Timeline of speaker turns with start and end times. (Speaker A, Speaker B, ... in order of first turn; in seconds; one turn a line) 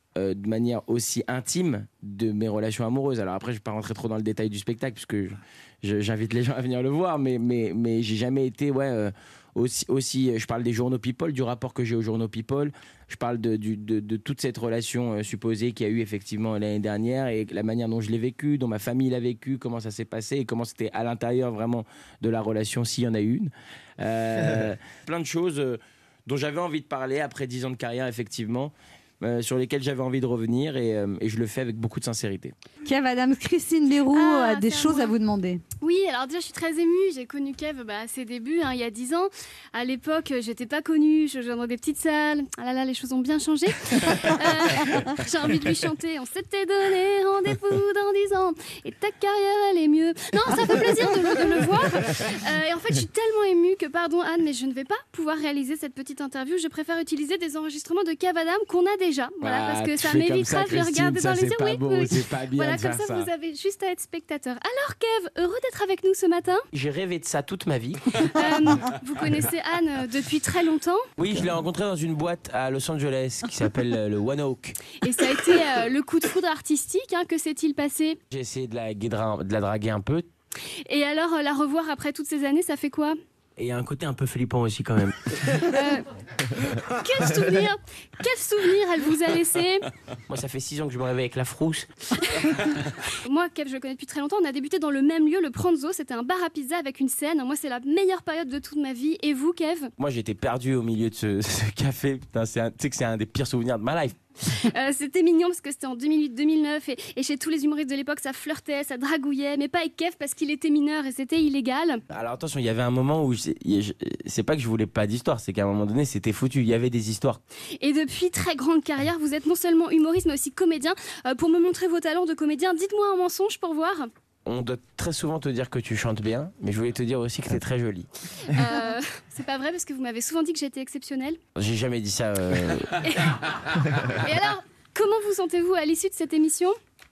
Speaker A: 0.2-32.5
Speaker B: 32.9-35.6
Speaker C: 34.1-35.1
Speaker C: 35.8-66.6
Speaker B: 50.5-51.2
Speaker A: 59.4-63.3
Speaker A: 66.7-69.3
Speaker C: 68.4-71.0
Speaker A: 71.2-75.7
Speaker C: 75.0-78.2
Speaker A: 78.3-80.3
Speaker C: 80.9-83.2
Speaker A: 83.6-85.1
Speaker C: 85.7-86.0
Speaker C: 87.0-89.9
Speaker A: 90.3-91.9
Speaker C: 93.2-99.9
Speaker A: 100.0-104.2
Speaker C: 104.5-112.0
Speaker A: 112.1-117.4
Speaker C: 117.8-124.1
Speaker A: 124.5-128.1
Speaker C: 128.5-131.4
Speaker A: 131.6-133.0
Speaker C: 133.0-136.8